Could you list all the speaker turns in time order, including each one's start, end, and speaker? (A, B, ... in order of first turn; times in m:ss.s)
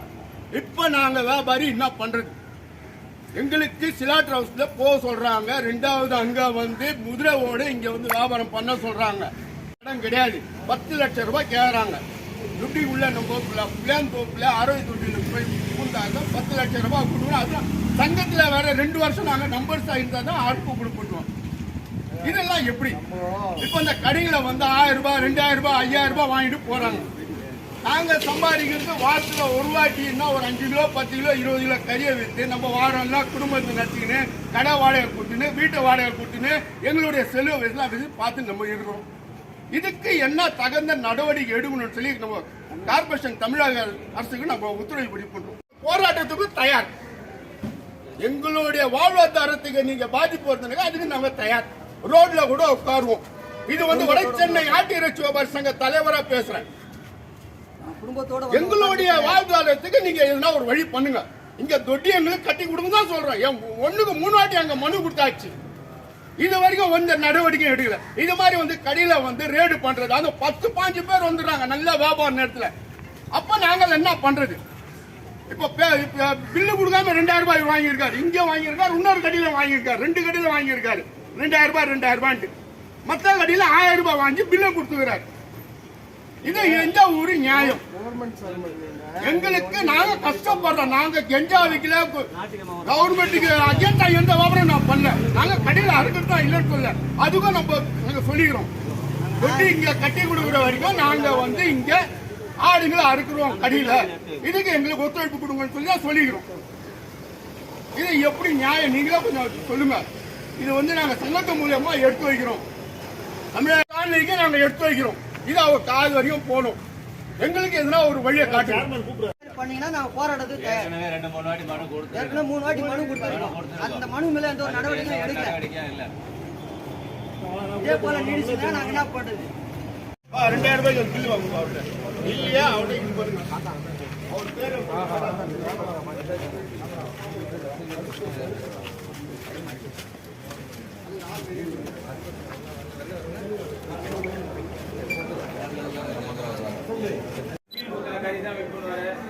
0:00.5-0:02.3 A
0:03.3-0:12.0 A
0:12.6-0:21.3 A
0:22.2-0:23.0 A
0:23.1-0:23.5 B
0:23.6-0:27.1 A
0:27.8-0:39.0 A
0:39.7-0:46.9 A
0:48.2-0:56.6 A
0:53.9-0:54.8 B
0:57.8-0:59.4 B
0:58.5-1:05.5 A
1:06.4-1:12.7 A
1:13.3-1:14.6 A
1:15.5-1:22.5 A
1:23.0-1:25.2 A
1:26.4-1:27.8 A
1:28.0-1:30.3 B
1:28.4-1:28.7 C
1:29.2-1:32.3 A
1:32.4-1:33.2 C
1:32.4-1:33.0 B
1:32.8-1:38.7 A
1:39.2-1:39.8 B
1:39.4-1:42.0 A
1:40.4-1:41.6 B
1:42.6-1:46.4 A
1:43.5-1:44.2 C
1:48.0-1:50.0 A
1:50.6-1:52.6 A
1:53.5-1:56.8 A
1:57.4-1:58.9 A
1:59.4-2:00.9 B
2:00.6-2:04.0 C
2:02.1-2:05.6 B
2:04.6-2:06.1 C
2:07.6-2:09.5 B
2:10.3-2:13.6 A
2:14.3-2:15.8 A
2:27.9-2:29.2 C